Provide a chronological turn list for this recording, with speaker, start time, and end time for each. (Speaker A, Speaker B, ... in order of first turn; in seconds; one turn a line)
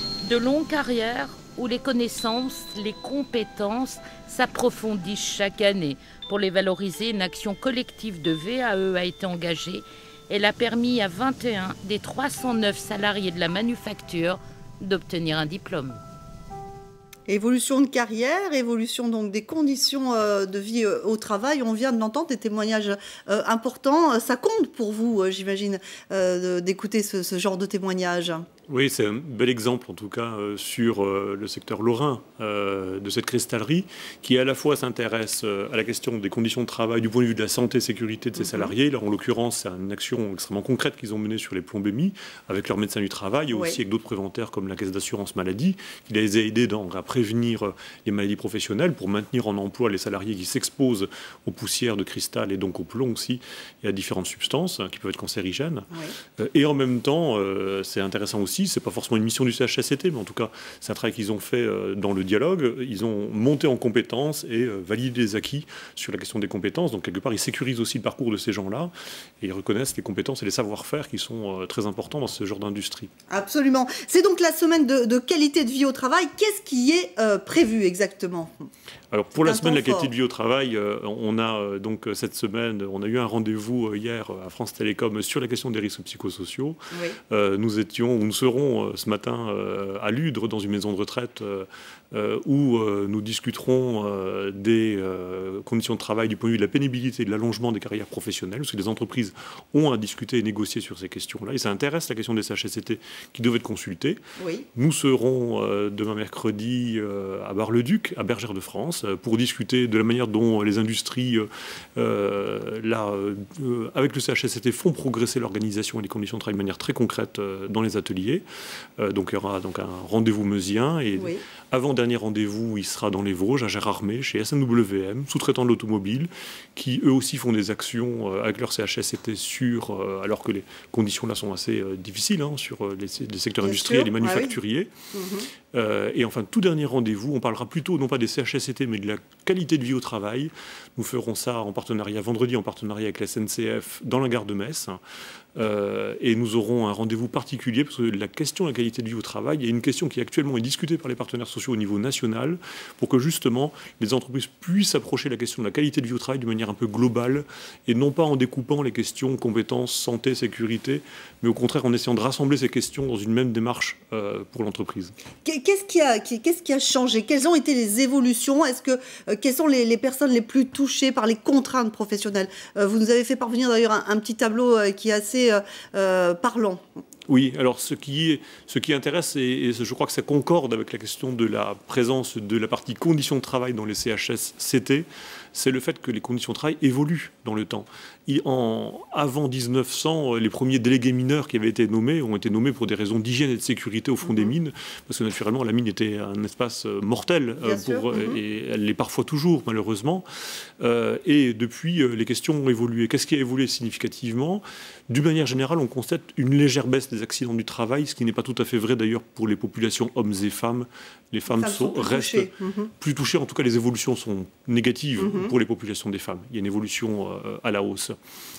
Speaker A: 0.2-16.0
Speaker B: 17.3-28.4
Speaker C: 28.7-55.9
Speaker B: 38.4-38.7
Speaker B: 43.5-43.8
Speaker C: 56.4-68.9
Speaker C: 69.4-73.1
Speaker B: 73.3-78.5
Speaker C: 79.1-86.8
Speaker B: 79.4-80.1
Speaker B: 86.9-87.2
Speaker C: 87.3-104.2
Speaker B: 104.4-104.7
Speaker C: 104.8-118.4
Speaker C: 119.0-134.9
Speaker B: 121.2-121.4
Speaker B: 133.6-134.6
Speaker B: 135.1-135.5
Speaker C: 135.7-145.0
Speaker C: 145.6-165.1
Speaker B: 165.4-176.8
Speaker C: 177.3-200.2
Speaker B: 194.2-194.5
Speaker B: 197.6-198.4
Speaker C: 200.8-218.1
Speaker B: 211.5-212.9
Speaker B: 215.2-215.5